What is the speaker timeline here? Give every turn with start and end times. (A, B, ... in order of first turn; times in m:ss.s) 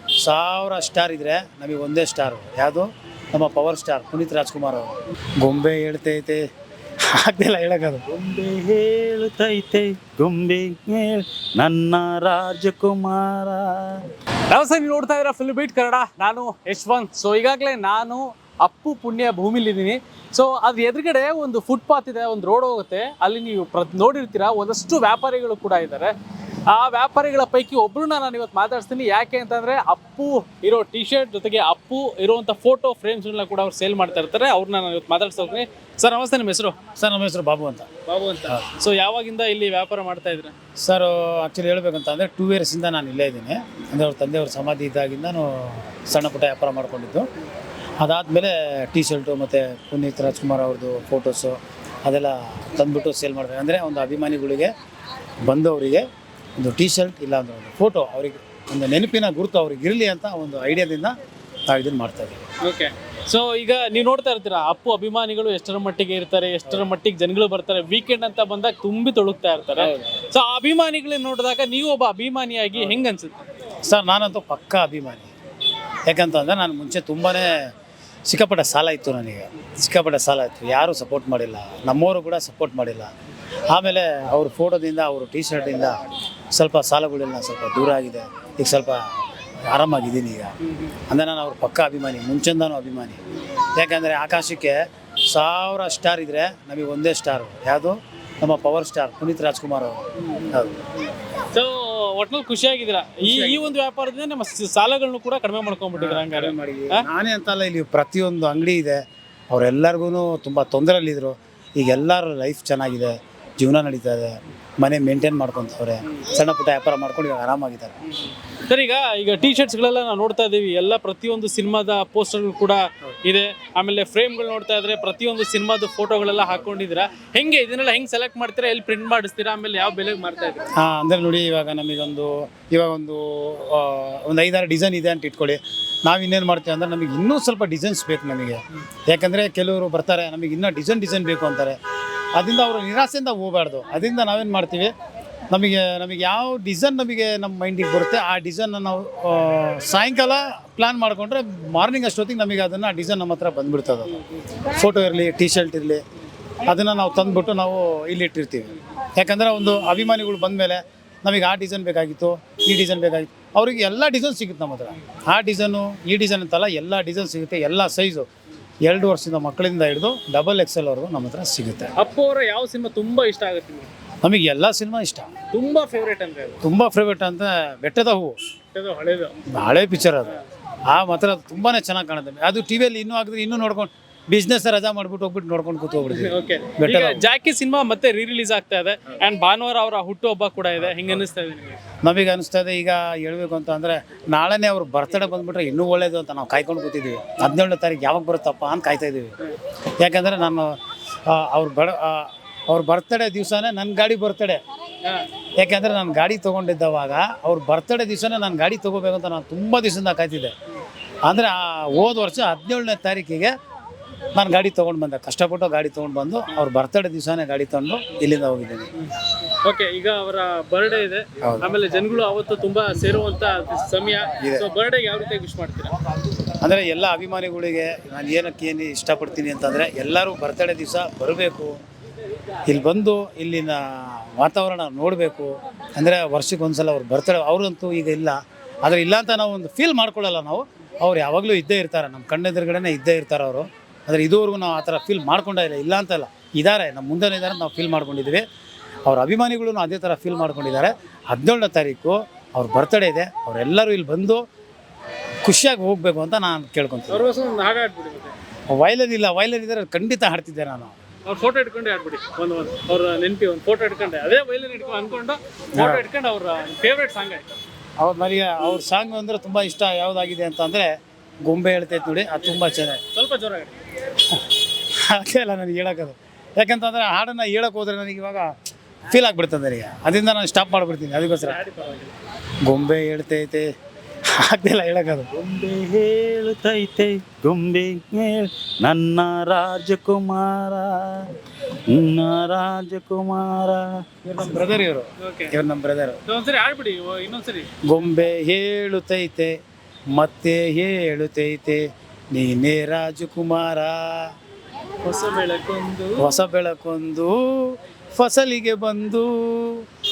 0:00.2-0:06.4 A
0:07.1-0:08.0 A
0:08.1-0:14.0 B
0:14.5-0:26.1 C
0:26.7-0:36.8 C
0:37.0-0:37.9 A
0:38.1-0:40.5 C
0:40.8-0:47.3 A
0:48.0-0:54.7 A
0:55.4-0:56.0 A
0:56.6-1:01.2 A
1:01.7-1:02.4 A
1:02.6-1:13.4 C
1:13.9-1:15.3 A
1:16.1-1:17.5 A
1:18.3-1:23.1 A
1:23.7-1:26.0 A
1:26.5-1:29.1 A
1:29.7-1:30.6 A
1:30.6-1:30.9 C
1:31.1-1:33.2 A
1:33.8-1:40.8 A
1:40.2-1:40.7 C
1:41.5-1:47.1 C
1:43.2-1:43.6 A
1:46.0-1:58.0 A
1:58.1-2:10.7 C
2:10.7-2:21.8 A
2:22.4-2:24.9 A
2:25.5-2:36.0 A
2:36.7-2:48.3 A
2:48.8-2:51.9 A
2:52.0-2:53.9 C
2:54.2-2:55.3 A
2:55.5-2:56.6 C
2:56.6-2:58.4 A
2:58.7-2:59.4 C
2:59.5-3:00.3 A
3:00.9-3:07.2 A
3:06.1-3:11.8 C
3:12.0-3:19.4 A
3:20.0-3:24.6 A
3:25.6-3:30.5 A
3:31.3-3:33.5 A
3:34.4-3:38.9 A
3:39.0-3:46.0 C
3:41.4-3:41.7 A
3:44.4-3:44.7 A
3:46.6-3:51.8 A
3:52.7-4:08.4 A
4:09.1-4:14.4 A
4:15.4-4:17.3 A
4:17.1-4:18.3 C
4:18.7-4:21.0 A
4:21.3-4:27.4 C
4:25.8-4:26.0 A
4:28.0-4:30.9 A
4:31.4-4:33.0 A
4:33.1-4:33.8 C
4:35.0-4:38.5 A
4:39.1-4:41.6 A
4:41.4-4:42.1 C
4:42.6-4:43.7 A
4:44.4-4:45.3 A
4:45.3-4:51.3 B
4:51.9-4:54.0 B
4:54.3-4:56.2 A
4:54.4-4:55.5 C
4:56.3-4:57.7 C
4:57.8-4:59.6 A
5:00.1-5:04.3 A
5:05.0-5:06.3 C
5:06.2-5:09.9 A